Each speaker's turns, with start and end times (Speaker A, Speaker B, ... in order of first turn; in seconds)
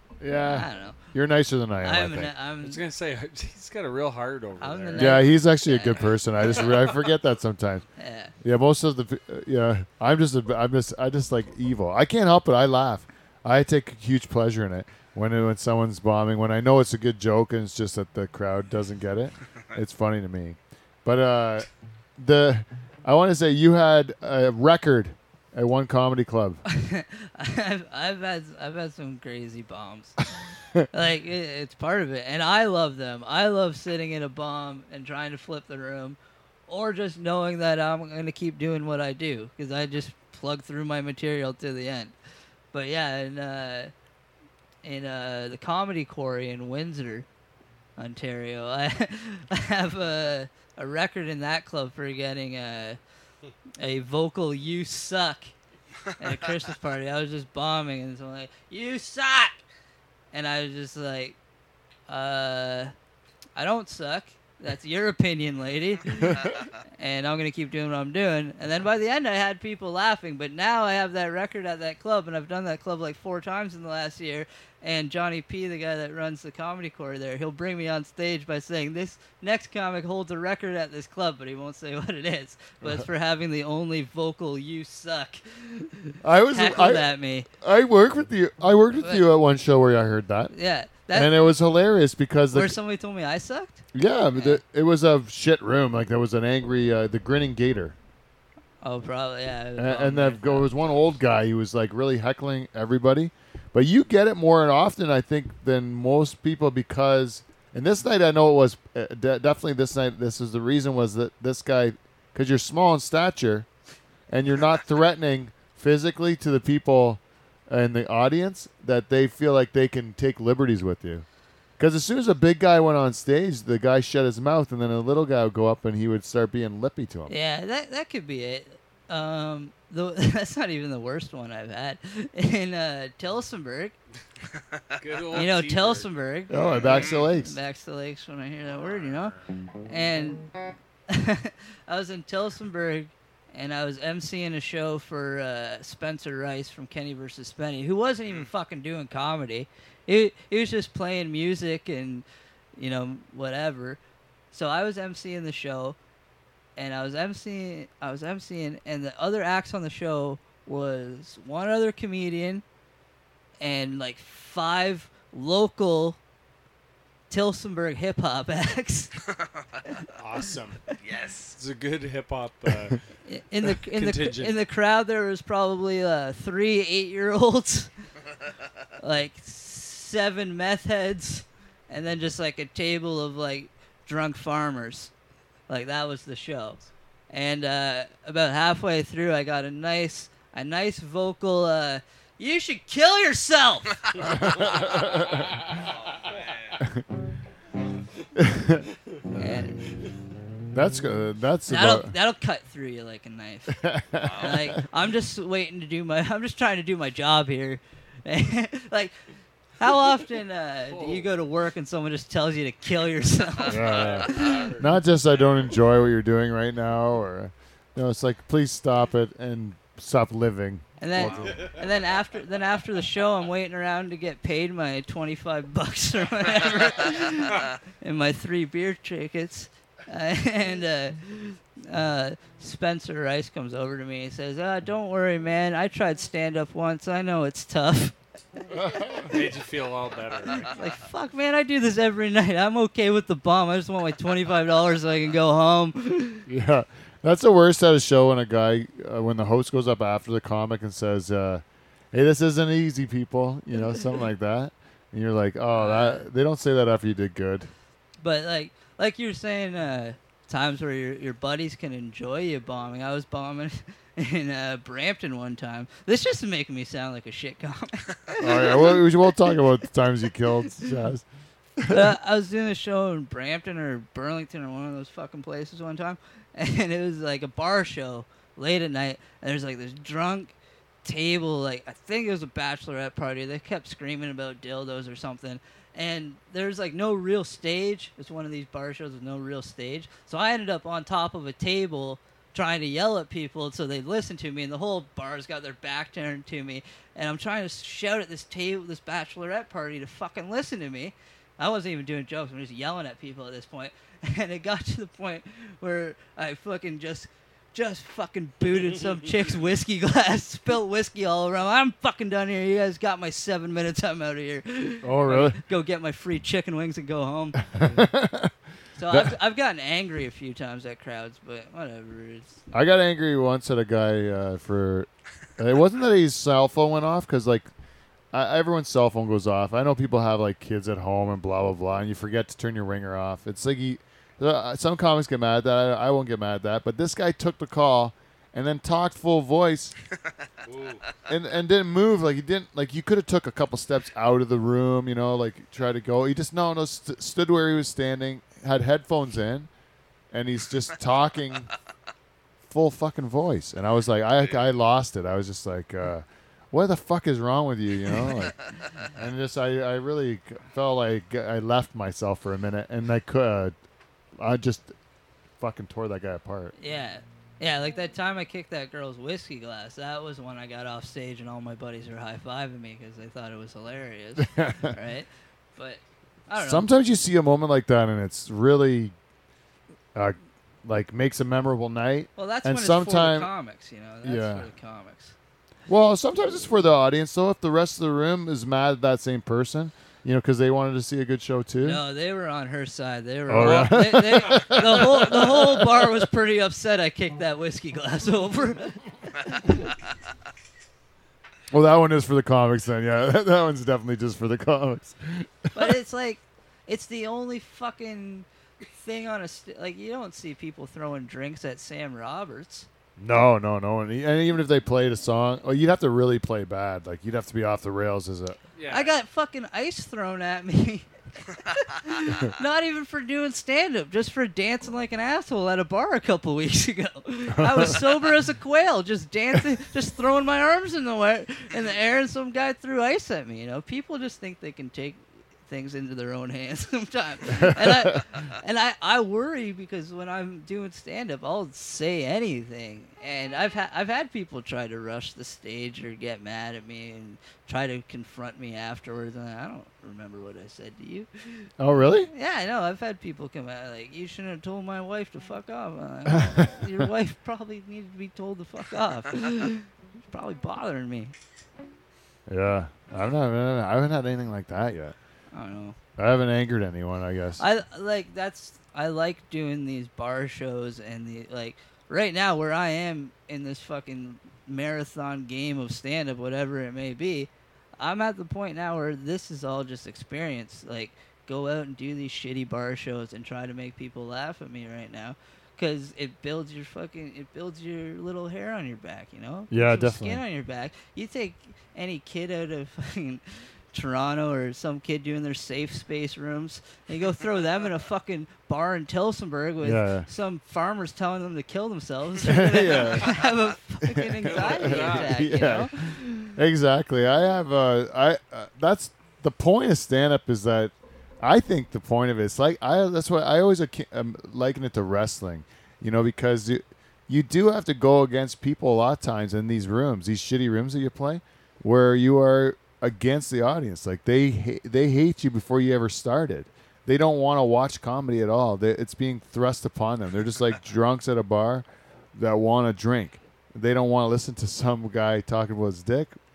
Speaker A: 0.2-2.3, 5.0-7.9, 8.4-26.6, 86.2-90.5, 91.1-92.8, 93.9-98.0, 99.8-113.7, 114.3-121.2, 121.8-127.3, 136.5-137.6, 194.2-195.5, 198.3-199.7, 200.7-202.1, 203.7-204.8, 213.6-221.7, 238.7-239.3, 246.5-257.7, 268.4-271.2, 271.8-272.1, 315.0-315.6, 317.7-318.5, 319.1-319.4, 322.7-327.7, 328.3-339.9, 341.3-349.7, 350.3-351.7, 352.7-363.7, 364.4-364.9, 365.6-366.7, 374.4-374.9, 376.6-379.1, 380.1-383.5, 384.2-384.7, 385.9-392.0, 393.5-396.1, 401.7-405.9, 413.2-418.6, 427.6-428.1, 437.5-438.2, 451.8-452.3, 456.2-456.9, 462.5-465.1, 466.2-467.6, 489.7-490.4, 499.8-500.3, 502.4-503.4, 504.0-536.4
Speaker B: 0.3-1.1, 1.8-2.8, 4.6-6.7, 8.0-8.3, 26.6-30.2, 30.9-42.1, 42.7-43.9, 44.8-47.2, 48.0-53.0, 53.8-55.5, 56.2-59.6, 60.3-61.4, 62.1-62.9, 63.6-87.5, 89.0-89.2, 90.5-91.3, 92.5-94.6, 98.8-100.7, 127.3-133.9, 135.3-140.5, 141.1-154.0, 154.5-156.0, 156.8-162.6, 163.6-166.2, 167.3-169.1, 173.2-177.9, 179.0-185.1, 185.7-194.5, 199.3-199.8, 201.7-209.1, 209.8-214.8, 221.0-238.1, 240.6-246.4, 255.8-256.2, 258.2-269.6, 271.9-318.0, 319.0-322.6, 366.8-376.9, 382.4-385.3, 391.8-399.9, 405.7-412.9, 418.9-451.7, 452.3-461.3, 465.5-466.0, 467.6-506.6
Speaker C: 2.6-5.3, 135.0-136.1, 138.8-139.4, 170.2-170.8, 171.6-173.0, 173.7-174.6, 210.9-211.3, 213.8-214.8, 221.2-221.6, 239.2-240.8, 340.6-341.0, 418.8-419.1, 504.4-505.5
Speaker D: 169.3-170.0, 171.0-171.6, 194.5-195.1, 195.7-196.8, 204.2-204.6